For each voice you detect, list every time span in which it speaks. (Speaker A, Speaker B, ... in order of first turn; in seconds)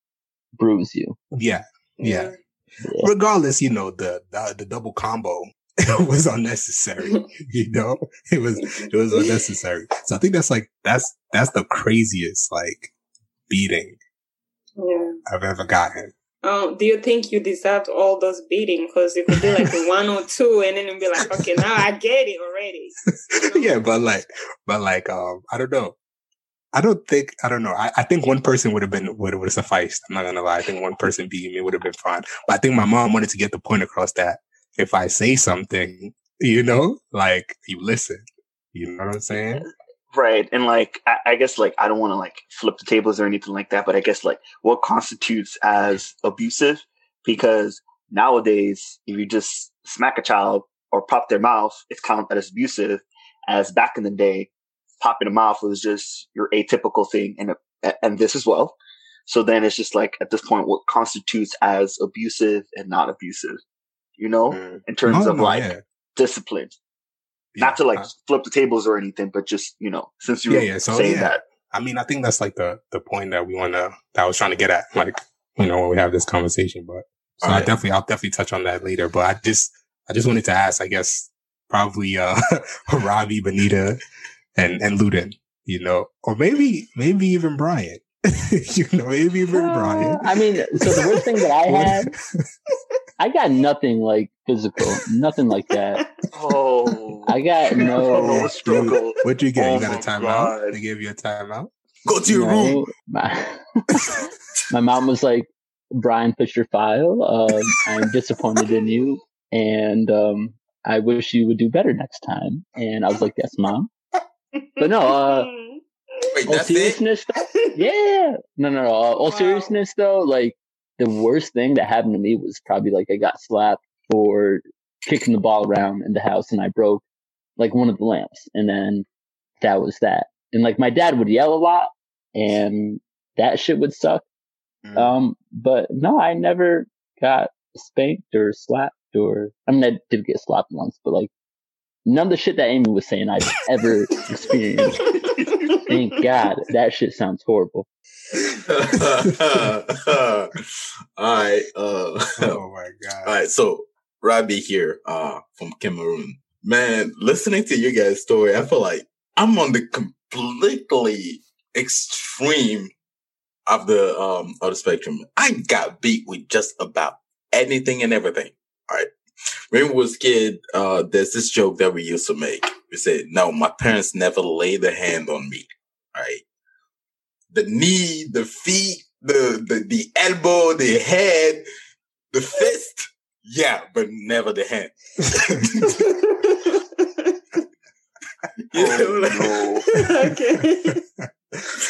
Speaker A: 0.6-1.2, 2.8-3.1, 89.5-92.1, 93.2-96.0, 97.2-98.5, 102.2-104.2, 104.7-113.9, 114.8-115.5, 116.5-127.0, 127.6-129.1, 129.6-134.2, 134.9-141.3, 142.1-145.1, 145.8-147.9
Speaker B: 1.3-2.3, 3.0-12.9, 13.5-14.0, 15.2-16.1, 19.3-19.8, 21.3-21.6, 23.3-25.9, 26.7-39.7, 64.5-65.8, 67.5-68.1, 70.5-84.0, 84.5-90.2, 90.8-91.1, 91.6-92.1, 98.1-101.7, 134.8-135.1, 152.4-153.4, 185.2-185.7, 191.2-191.7
Speaker C: 2.0-2.4, 8.6-9.3, 14.8-15.2, 16.4-23.7, 114.5-116.3, 117.4-117.8, 119.2-119.7, 144.9-146.0, 185.8-187.6, 189.9-191.0
Speaker D: 39.3-39.6, 40.1-58.7, 59.3-63.6, 64.2-66.7, 67.6-71.4, 96.3-100.8, 188.7-189.8
Speaker E: 77.4-77.7, 102.0-102.8, 116.3-117.0, 148.6-150.5, 151.2-152.6, 153.2-162.9, 163.7-169.1, 169.7-176.4, 177.5-181.6, 182.3-186.0, 188.7-189.7